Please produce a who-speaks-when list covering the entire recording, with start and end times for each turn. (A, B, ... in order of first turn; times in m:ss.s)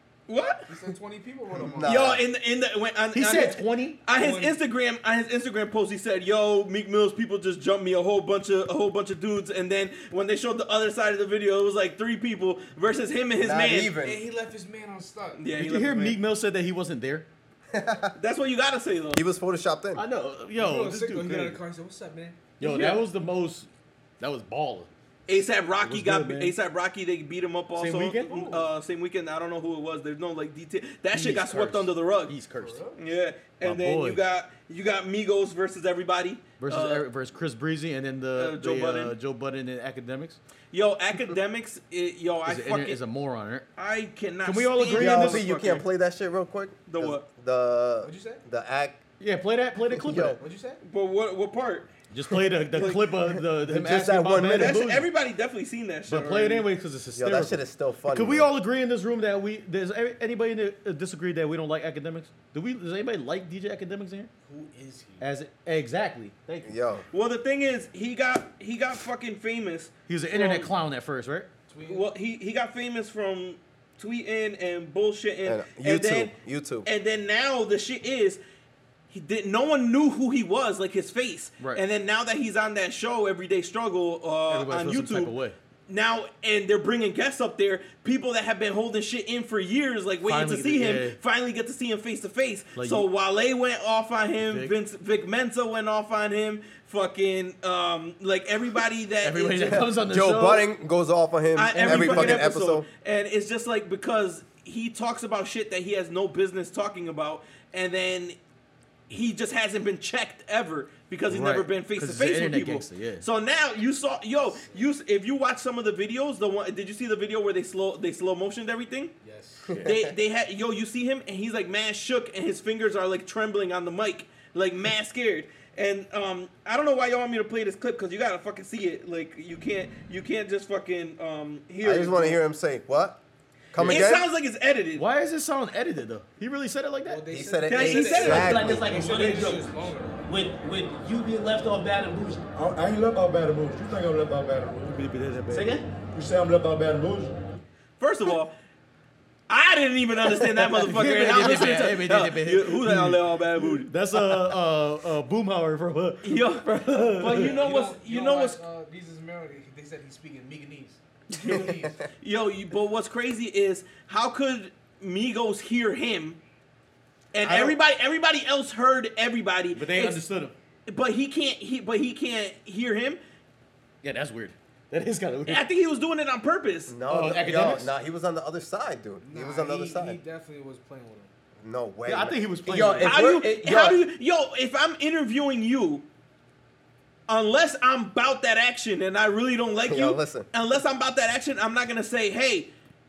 0:00.3-0:00.7 A
0:00.7-0:02.2 B
0:01.5-0:02.2 C
0:01.8-0:14.0 A
0:03.1-0:04.0 D
0:04.1-0:04.6 B
0:13.4-0:14.2 C
0:14.0-0:15.6 B
0:15.4-0:16.1 A
0:15.6-0:17.3 D
0:17.7-0:18.1 C
0:18.2-0:19.2 A
0:19.1-0:20.0 C
0:20.0-0:21.6 D
0:20.5-0:22.4 B
0:22.6-0:23.7 D
0:22.6-0:23.0 A
0:24.2-0:24.9 D
0:25.3-0:32.3 A
0:25.8-0:26.6 D
0:27.8-0:28.3 D
0:28.2-0:28.7 B
0:31.1-0:32.8 D
0:32.5-0:33.0 B
0:33.0-0:37.0 A
0:33.6-0:34.2 D
0:36.6-0:40.4 D
0:38.4-0:39.1 A
0:40.7-0:43.0 A
0:42.4-0:43.7 D
0:43.8-0:45.8 A
0:44.4-0:45.4 D
0:44.9-0:49.0 C
0:46.9-0:47.2 A
0:48.0-0:48.4 B
0:49.2-0:50.4 D
0:50.0-0:50.4 C
0:50.4-0:50.8 B
0:50.8-0:51.9 A
0:52.1-0:55.1 D
0:52.7-0:53.1 A
0:53.4-0:54.8 C
0:54.4-0:56.7 A
0:56.1-1:04.3 D
0:57.1-0:58.5 C
1:04.4-1:05.3 B
1:05.2-1:06.7 D
1:06.6-1:07.0 C
1:07.1-1:10.7 A
1:10.1-1:11.5 D
1:11.7-1:12.1 B
1:11.8-1:16.3 A
1:15.4-1:16.9 C
1:16.8-1:18.4 A
1:19.1-1:25.3 A
1:24.5-1:25.6 D
1:25.9-1:39.9 A
1:30.2-1:31.2 D
1:32.8-1:33.1 D
1:34.4-1:34.8 D
1:39.2-1:40.7 D
1:39.8-1:42.9 C
1:41.6-1:48.4 A
1:41.7-1:42.6 D
1:49.1-1:59.1 A
1:51.3-1:53.3 D
1:54.6-1:54.9 B
1:59.2-1:59.8 B
1:59.8-2:00.1 C
1:59.8-2:12.4 A
2:11.8-2:13.2 C
2:13.7-2:14.3 C
2:13.8-2:15.0 A
2:13.8-2:14.0 D
2:15.0-2:17.2 D
2:17.0-2:20.3 B
2:17.3-2:19.0 C
2:17.7-2:18.6 A
2:18.3-2:22.4 E
2:22.5-2:25.0 F
2:24.9-2:25.8 D
2:25.5-2:25.9 E
2:26.1-2:27.4 F
2:28.0-2:28.5 A
2:29.5-2:33.9 A
2:30.5-2:37.5 D
2:36.2-2:38.6 A
2:37.3-2:42.1 B
2:41.3-2:41.6 A
2:42.2-2:46.4 A
2:47.3-2:50.2 A
2:47.4-2:47.8 D
2:49.7-2:50.5 D
2:50.9-2:53.2 A
2:54.0-2:55.7 D
2:55.5-2:57.0 A
2:56.9-3:00.2 C
2:57.1-2:57.9 D
2:59.2-3:01.6 B
3:01.6-3:04.0 C
3:02.1-3:03.3 D
3:03.0-3:06.0 A
3:07.3-3:12.7 A
3:09.9-3:10.5 C